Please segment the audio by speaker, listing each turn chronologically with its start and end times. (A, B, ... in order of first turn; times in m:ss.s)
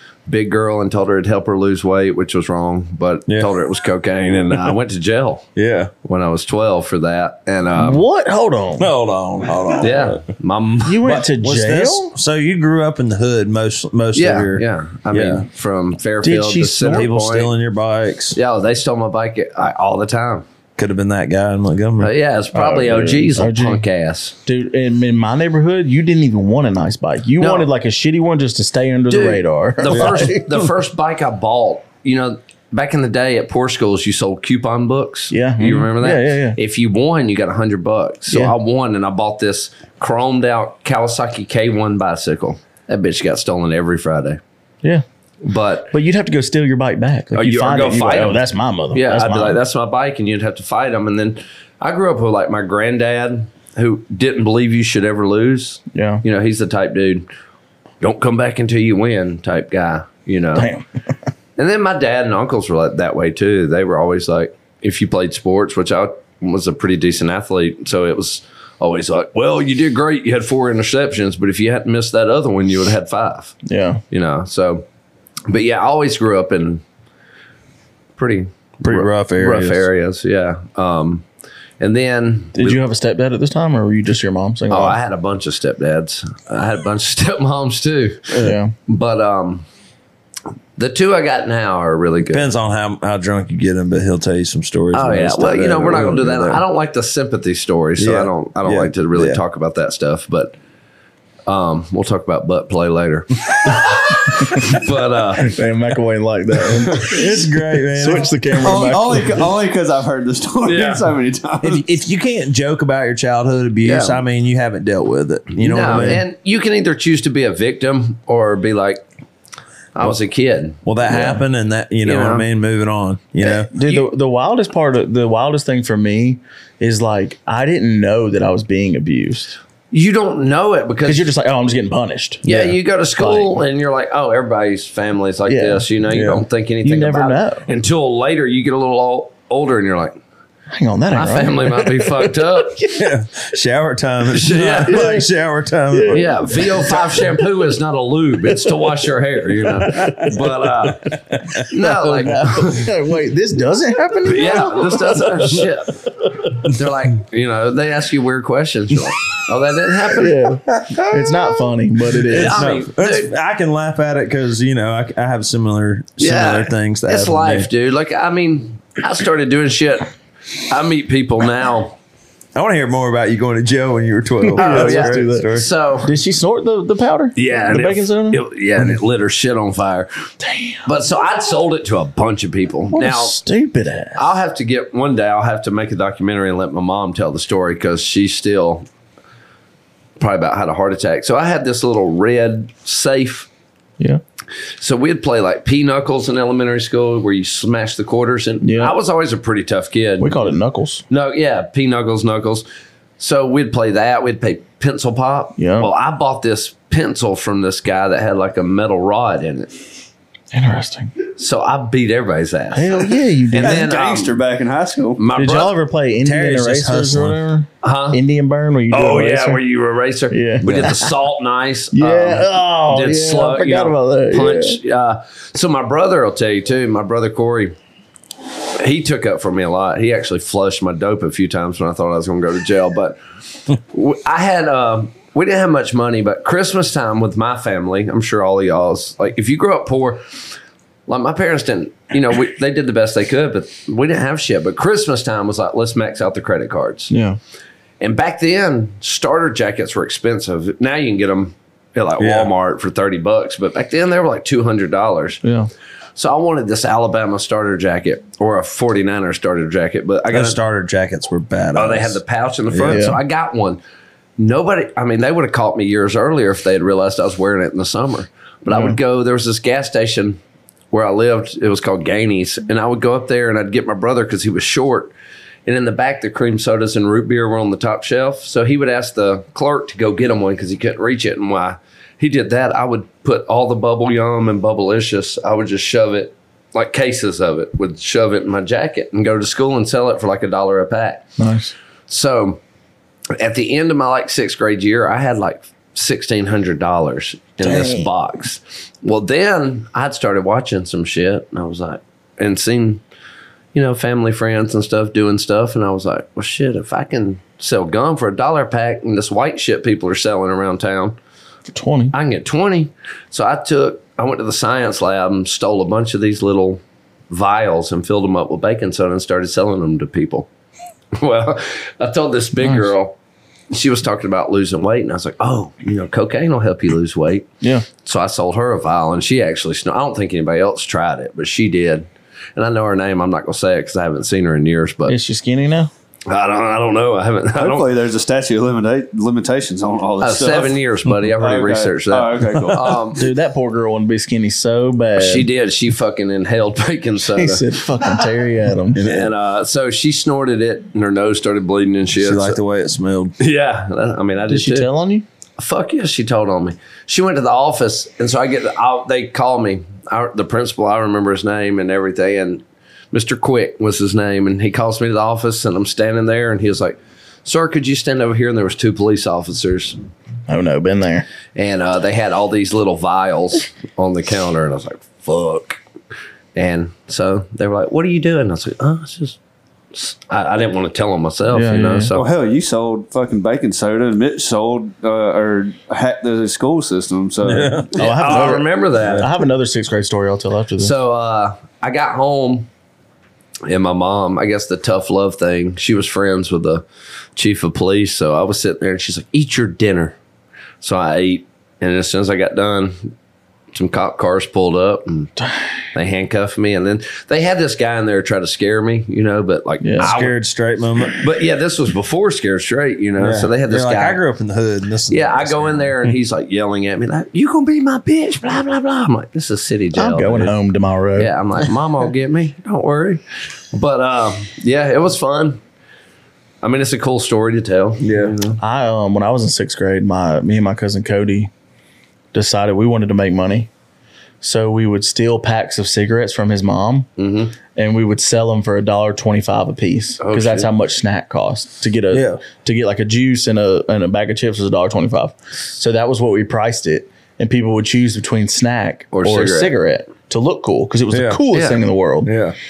0:00.3-0:05.5 A
0:03.3-0:03.5 B
0:05.6-0:05.9 B
0:06.0-0:08.0 A
0:07.7-0:08.9 C
0:08.8-0:10.2 B
0:09.8-0:11.0 A
0:10.8-0:12.1 C
0:11.0-0:15.5 B
0:14.1-0:17.5 A
0:16.2-0:17.1 C
0:16.8-0:18.4 B
0:18.4-0:20.4 A
0:20.8-0:22.1 B
0:22.0-0:24.4 A
0:22.5-0:23.9 C
0:24.4-0:30.4 C
0:27.4-0:27.7 A
0:29.1-0:44.4 A
0:29.9-0:30.6 B
0:35.3-0:36.6 C
0:38.3-0:38.5 C
0:45.4-0:45.9 A
0:45.9-0:49.6 C
0:47.3-0:57.3 A
0:55.9-0:56.2 C
0:58.0-1:00.7 A
1:00.5-1:00.8 C
1:01.6-1:13.6 A
1:13.6-1:14.0 C
1:14.1-1:14.9 A
1:15.5-1:16.8 A
1:18.2-1:18.5 A
1:18.8-1:19.8 B
1:18.9-1:19.6 C
1:19.4-1:21.2 A
1:21.8-1:22.8 A
1:22.5-1:25.0 C
1:24.7-1:29.6 A
1:28.4-1:28.7 C
1:30.8-1:32.5 A
1:32.2-1:36.6 B
1:34.9-1:40.5 A
1:38.0-1:39.4 B
1:41.5-1:45.5 A
1:45.4-1:49.5 C
1:46.9-1:48.9 B
1:48.6-1:51.9 D
1:50.6-1:51.0 A
1:51.6-1:56.2 B
1:53.8-1:54.2 A
1:55.5-1:59.0 A
1:55.9-1:56.2 C
1:59.9-2:00.8 A
2:00.8-2:03.7 B
2:01.1-2:01.4 C
2:02.0-2:02.4 A
2:03.5-2:09.6 C
2:03.8-2:04.1 A
2:09.9-2:11.3 A
2:11.0-2:12.4 C
2:12.4-2:12.8 B
2:12.4-2:20.2 A
2:13.2-2:13.6 C
2:15.5-2:15.9 C
2:16.1-2:16.4 B
2:16.8-2:17.6 C
2:20.7-2:23.1 C
2:21.1-2:22.8 A
2:22.9-2:27.2 B
2:24.3-2:25.0 A
2:24.8-2:25.3 C
2:25.9-2:27.3 C
2:26.1-2:31.1 A
2:29.6-2:31.6 B
2:31.7-2:32.9 A
2:31.7-2:35.6 C
2:34.2-2:36.0 A
2:36.6-2:40.3 A
2:40.1-2:42.7 C
2:40.7-2:47.7 B
2:42.3-2:43.3 A
2:46.2-2:50.1 A
2:50.6-2:52.0 A
2:52.5-2:55.7 B
2:54.4-2:58.4 C
2:54.6-2:56.1 A
2:57.4-3:00.1 A
3:00.4-3:00.8 C
3:00.8-3:03.4 A
3:02.9-3:04.2 C
3:04.1-3:08.9 A
3:10.2-3:13.5 A
3:14.8-3:20.5 A
3:18.6-3:19.0 C
3:20.2-3:21.0 C
3:21.1-3:22.7 A
3:23.2-3:29.8 A
3:25.6-3:25.9 C
3:30.5-3:31.1 C
3:31.4-3:34.4 A
3:32.7-3:33.9 C
3:33.5-3:35.2 D
3:35.2-3:35.7 A
3:35.4-3:39.6 C
3:36.2-3:37.4 B
3:37.8-3:38.2 A
3:38.9-3:47.7 A
3:40.3-3:41.1 C
3:40.6-3:41.0 B
3:41.9-3:44.8 C
3:48.8-3:53.2 A
3:53.9-4:00.2 A
4:01.1-4:07.1 A
4:07.1-4:07.4 C
4:08.0-4:15.4 A
4:12.2-4:12.5 B
4:15.4-4:15.7 C
4:16.2-4:20.6 A
4:20.3-4:23.1 B
4:21.7-4:23.8 A
4:22.9-4:23.2 C
4:24.4-4:30.4 A
4:28.7-4:29.0 C
4:30.9-4:35.1 A
4:35.6-4:51.3 A
4:51.4-4:51.7 C
4:52.1-4:52.6 A
4:53.4-5:03.0 A
4:57.6-4:58.1 C
5:03.7-5:11.2 A
5:11.7-5:12.1 C
5:12.1-5:20.5 A
5:21.2-5:23.2 A
5:22.6-5:22.9 C
5:23.7-5:35.2 A
5:35.1-5:35.9 C
5:36.3-5:37.9 A
5:37.6-5:40.8 D
5:40.2-5:43.3 A
5:41.4-5:43.0 D
5:43.1-5:45.5 C
5:45.2-5:47.7 A
5:47.3-5:49.0 C
5:48.9-5:49.3 B
5:49.0-5:52.6 A
5:52.2-5:53.4 B
5:53.4-5:54.9 A
5:54.5-5:55.2 C
5:55.6-6:10.0 A
6:10.5-6:11.3 C
6:11.5-6:15.8 A
6:16.6-6:19.4 A
6:19.9-6:22.2 A
6:21.5-6:22.1 C
6:22.1-6:27.9 D
6:27.4-6:29.3 B
6:28.0-6:29.3 A
6:28.0-6:30.9 C
6:30.8-6:32.7 A
6:33.7-6:36.8 A
6:37.4-6:40.2 A
6:40.8-6:43.1 A
6:43.7-6:45.3 A
6:45.9-6:50.4 A
6:49.8-6:50.1 C
6:50.0-6:51.2 B
6:51.1-6:54.2 A
6:53.2-6:56.1 B
6:55.1-7:00.5 A
6:59.9-7:01.3 C
7:01.2-7:03.2 A
7:03.7-7:05.6 A
7:06.6-7:08.6 A
7:08.0-7:08.4 B
7:08.6-7:11.5 C
7:12.3-7:13.7 C
7:14.4-7:17.1 C
7:17.2-7:17.5 A
7:17.7-7:32.3 C
7:20.2-7:20.7 A
7:22.1-7:22.4 B
7:29.1-7:29.8 A
7:31.1-7:31.4 B
7:31.5-7:31.8 A
7:32.2-7:32.6 B